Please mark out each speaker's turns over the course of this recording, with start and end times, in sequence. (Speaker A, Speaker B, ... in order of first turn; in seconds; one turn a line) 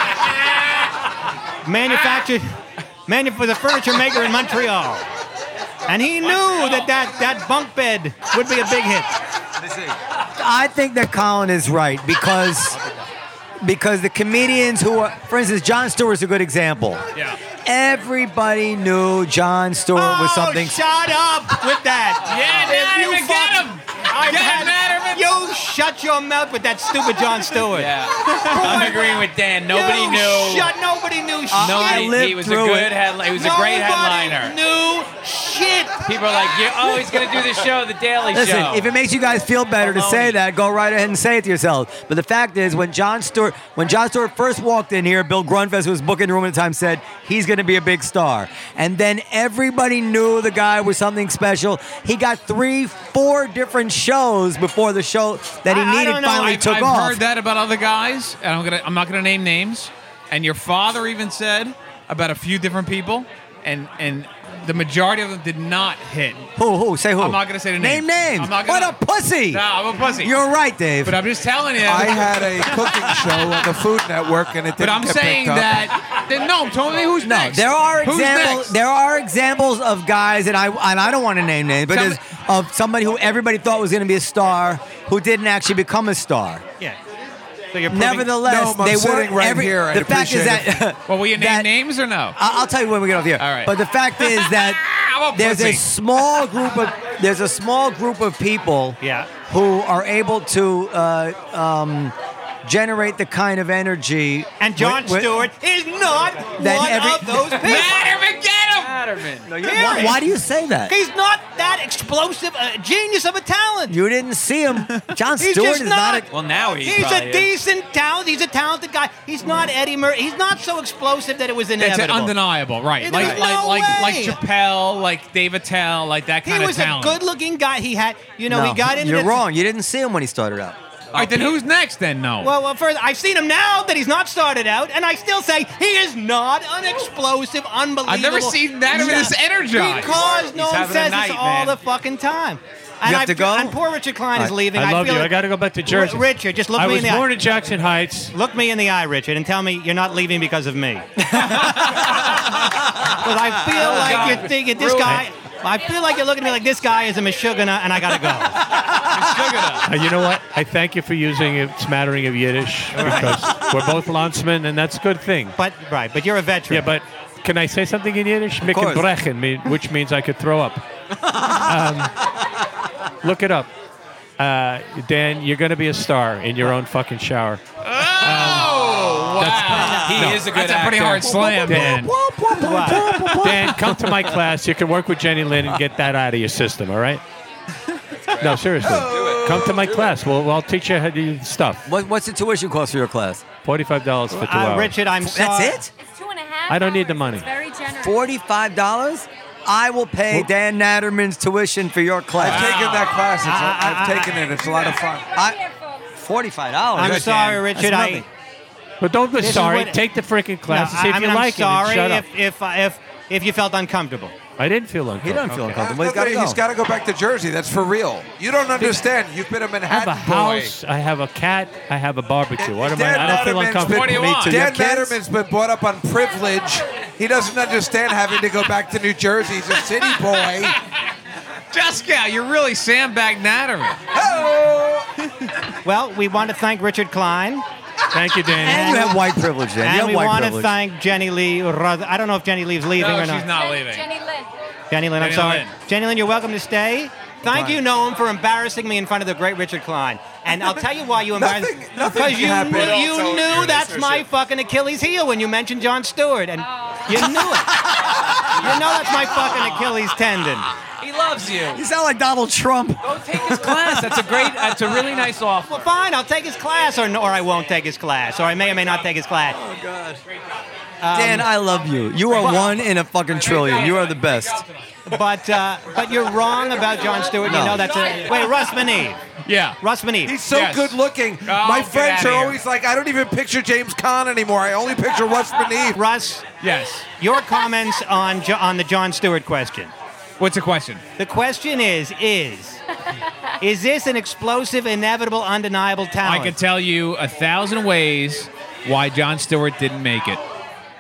Speaker A: 1.6-2.5
Speaker A: 3.1-5.0
Speaker A: 5.9-9.2
Speaker B: 6.4-6.8
Speaker C: 9.6-12.8
Speaker C: 13.6-17.0
Speaker C: 17.6-20.8
Speaker A: 19.9-32.2
Speaker B: 22.3-25.3
Speaker D: 27.7-30.7
Speaker C: 31.5-33.0
Speaker D: 31.6-34.5
Speaker A: 33.3-36.2
Speaker D: 36.0-38.9
Speaker C: 38.3-57.2
Speaker D: 39.8-40.4
Speaker A: 55.6-56.6
Speaker B: 56.4-66.5
Speaker C: 66.6-69.6
Speaker B: 67.2-69.0
Speaker B: 69.5-70.3
Speaker C: 70.2-71.2
Speaker B: 71.0-72.8
Speaker E: 71.8-75.8
Speaker B: 74.8-78.7
Speaker C: 77.2-86.6
Speaker B: 81.9-82.2
Speaker A: 87.7-88.3
Speaker C: 87.9-91.7
Speaker E: 88.4-90.8
Speaker B: 91.1-92.3
Speaker C: 92.4-105.5
Speaker B: 93.4-95.8
Speaker A: 99.0-99.3
Speaker A: 104.6-108.1
Speaker C: 106.6-107.4
Speaker B: 107.5-108.9
Speaker D: 108.8-109.9
Speaker C: 109.5-110.9
Speaker A: 109.6-110.2
Speaker A: 110.9-113.9
Speaker C: 113.9-116.3
Speaker A: 115.4-116.3
Speaker D: 116.3-117.5
Speaker A: 116.8-122.3
Speaker B: 121.8-127.2
Speaker A: 123.0-124.4
Speaker A: 126.4-129.4
Speaker C: 128.5-130.8
Speaker B: 131.1-132.5
Speaker A: 131.2-131.5
Speaker A: 132.4-147.3
Speaker B: 138.1-140.2
Speaker D: 140.2-141.8
Speaker C: 143.0-143.8
Speaker F: 144.7-148.3
Speaker A: 148.3-151.2
Speaker C: 151.4-151.7
Speaker A: 153.1-158.6
Speaker D: 153.8-155.2
Speaker B: 154.0-154.4
Speaker B: 159.1-159.8
Speaker F: 159.8-165.6
Speaker A: 163.0-163.3
Speaker A: 165.6-166.9
Speaker F: 166.7-170.8
Speaker C: 168.6-169.1
Speaker C: 171.3-171.6
Speaker F: 171.6-172.1
Speaker F: 173.2-173.7
Speaker F: 174.4-177.6
Speaker B: 177.8-182.1
Speaker F: 178.2-178.8
Speaker F: 179.4-180.4
Speaker A: 179.7-180.2
Speaker D: 179.9-181.5
Speaker C: 181.4-184.2
Speaker F: 181.7-182.1
Speaker A: 182.6-183.1
Speaker E: 183.1-183.4
Speaker F: 183.2-187.2
Speaker F: 188.4-191.8
Speaker E: 188.8-190.1
Speaker C: 191.9-193.4
Speaker F: 193.6-194.9
Speaker A: 194.3-195.8
Speaker C: 195.2-195.9
Speaker G: 196.0-198.2
Speaker F: 196.7-197.5
Speaker C: 197.9-202.7
Speaker E: 202.4-205.3
Speaker B: 202.4-203.2
Speaker A: 203.4-204.5
Speaker G: 204.6-206.0
Speaker C: 205.3-205.6
Speaker C: 206.2-208.2
Speaker A: 206.9-208.3
Speaker E: 207.0-207.6
Speaker F: 209.0-212.2
Speaker A: 209.4-210.0
Speaker A: 210.7-214.3
Speaker F: 214.6-215.8
Speaker C: 215.2-216.6
Speaker E: 215.8-220.7
Speaker F: 219.9-224.4
Speaker E: 222.6-230.8
Speaker B: 223.8-224.6
Speaker C: 224.1-225.2
Speaker B: 231.7-234.0
Speaker E: 234.1-235.1
Speaker A: 235.8-237.6
Speaker F: 238.1-239.1
Speaker C: 238.6-240.7
Speaker A: 238.6-239.2
Speaker A: 239.8-243.5
Speaker B: 243.0-244.1
Speaker G: 243.5-244.5
Speaker A: 244.9-257.8
Speaker B: 245.2-245.8
Speaker C: 247.5-247.8
Speaker E: 251.3-254.2
Speaker G: 256.7-257.0
Speaker C: 257.1-258.7
Speaker A: 258.6-260.7
Speaker D: 261.0-261.8
Speaker C: 261.7-265.1
Speaker D: 263.0-265.9
Speaker A: 265.7-269.6
Speaker C: 269.5-270.2
Speaker A: 271.0-271.5
Speaker C: 271.1-274.6
Speaker B: 273.3-274.6
Speaker A: 275.1-279.2
Speaker C: 277.4-277.9
Speaker B: 279.4-279.8
Speaker A: 279.8-280.4
Speaker E: 280.3-286.0
Speaker B: 280.4-282.6
Speaker A: 285.9-286.6
Speaker B: 286.6-287.1
Speaker A: 287.1-289.9
Speaker B: 290.4-291.0
Speaker A: 291.2-292.8
Speaker A: 293.6-296.6
Speaker B: 296.2-300.4